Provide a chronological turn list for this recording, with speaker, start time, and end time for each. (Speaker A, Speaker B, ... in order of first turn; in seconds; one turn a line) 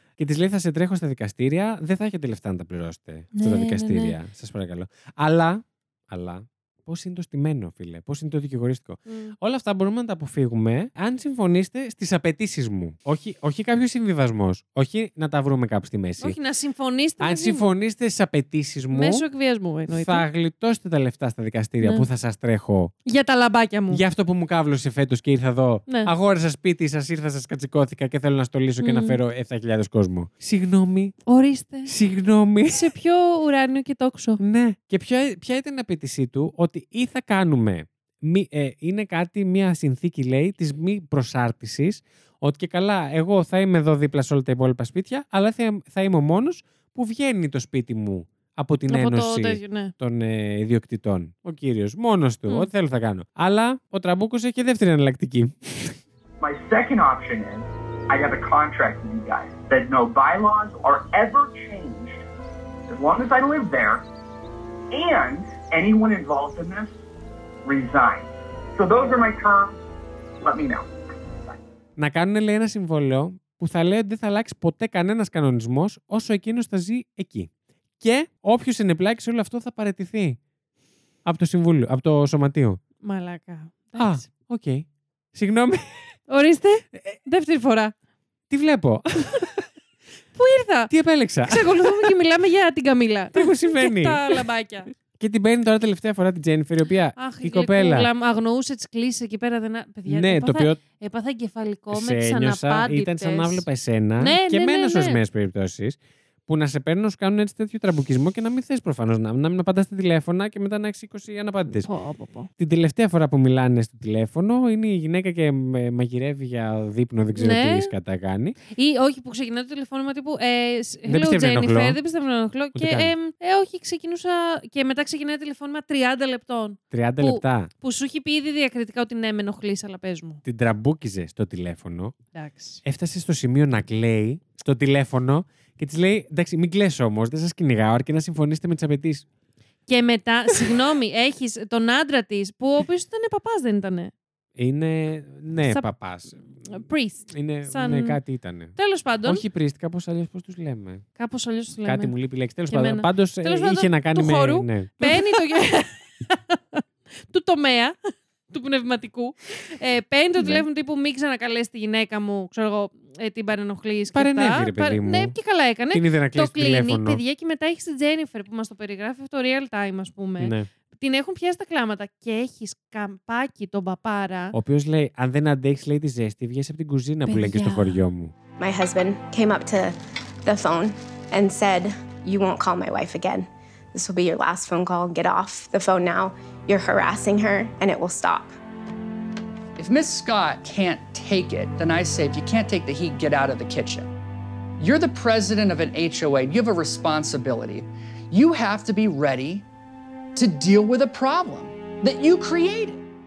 Speaker A: 0.2-16.4
Speaker B: 3.3-4.2
Speaker B: 9.1-9.3
Speaker B: 16.2-17.7
Speaker A: 17.2-19.3
Speaker B: 18.9-20.2
Speaker A: 19.9-22.9
Speaker B: 21.8-22.1
Speaker B: 23.1-24.0
Speaker A: 23.9-31.2
Speaker B: 28.8-29.2
Speaker B: 31.3-31.9
Speaker A: 31.9-32.9
Speaker B: 32.7-34.4
Speaker A: 34.4-56.0
Speaker B: 48.9-49.9
Speaker C: 56.4-62.2
Speaker C: 62.9-64.0
Speaker C: 64.9-66.9
Speaker C: 67.7-69.8
Speaker C: 70.4-70.9
Speaker A: 72.0-80.4
Speaker A: 81.2-82.8
Speaker B: 83.0-84.2
Speaker A: 84.0-86.2
Speaker B: 86.3-87.9
Speaker A: 88.5-89.7
Speaker B: 90.3-90.9
Speaker A: 90.9-92.2
Speaker B: 91.5-94.9
Speaker A: 93.3-94.4
Speaker A: 95.1-98.1
Speaker B: 97.2-103.7
Speaker A: 100.1-100.8
Speaker A: 101.9-111.9
Speaker B: 104.2-105.2
Speaker B: 111.8-112.5
Speaker A: 112.6-118.6
Speaker B: 117.3-117.9
Speaker B: 118.7-130.4
Speaker A: 121.1-122.0
Speaker A: 122.8-123.1
Speaker A: 126.9-127.7
Speaker A: 130.4-132.2
Speaker B: 132.3-132.8
Speaker A: 132.8-139.2
Speaker B: 139.9-144.1
Speaker A: 144.6-146.8
Speaker B: 146.7-148.2
Speaker A: 147.3-151.1
Speaker B: 148.8-149.4
Speaker B: 151.2-152.1
Speaker A: 151.8-155.4
Speaker B: 152.7-174.6
Speaker A: 160.4-160.7
Speaker A: 164.1-165.4
Speaker A: 165.9-167.2
Speaker A: 170.4-170.7
Speaker A: 174.5-178.3
Speaker B: 177.3-178.0
Speaker D: 178.6-188.6
Speaker E: 189.8-194.1
Speaker E: 194.8-199.7
Speaker E: 200.3-203.0